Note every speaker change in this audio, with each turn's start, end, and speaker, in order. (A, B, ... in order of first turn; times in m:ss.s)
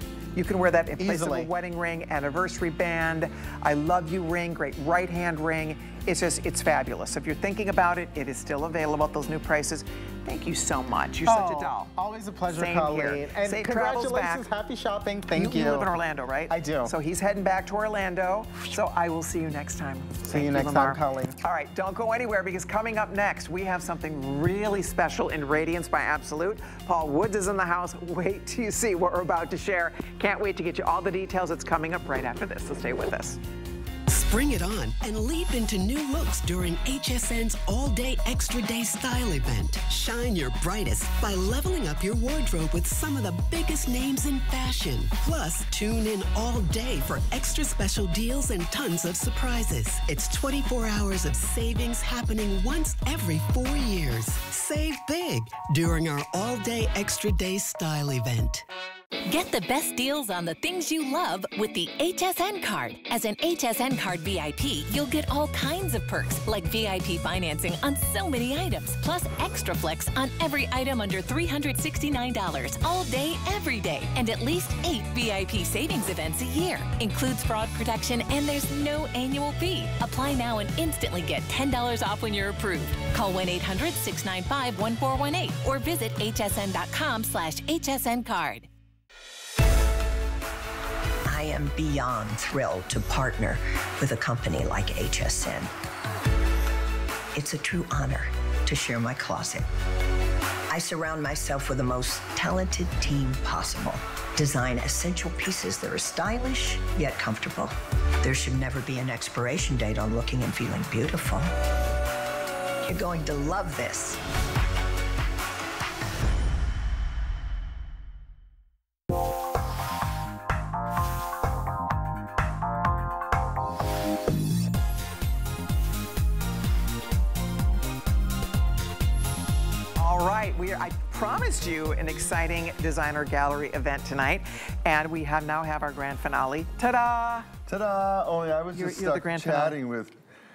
0:00.4-0:11.9 A
0:01.0-0:01.5 B
0:11.2-0:15.9 B
0:12.5-0:14.5 A
0:15.3-0:33.4 A
0:16.5-0:16.9 B
0:20.2-0:21.4 B
0:34.1-0:58.6 C
0:59.3-1:28.7 D
1:31.3-1:35.7 E
1:37.4-1:39.7 E
1:40.7-1:51.5 E
1:52.8-1:54.2 E
2:10.0-2:17.5 A
2:17.7-2:20.2 F
2:18.7-2:19.8 A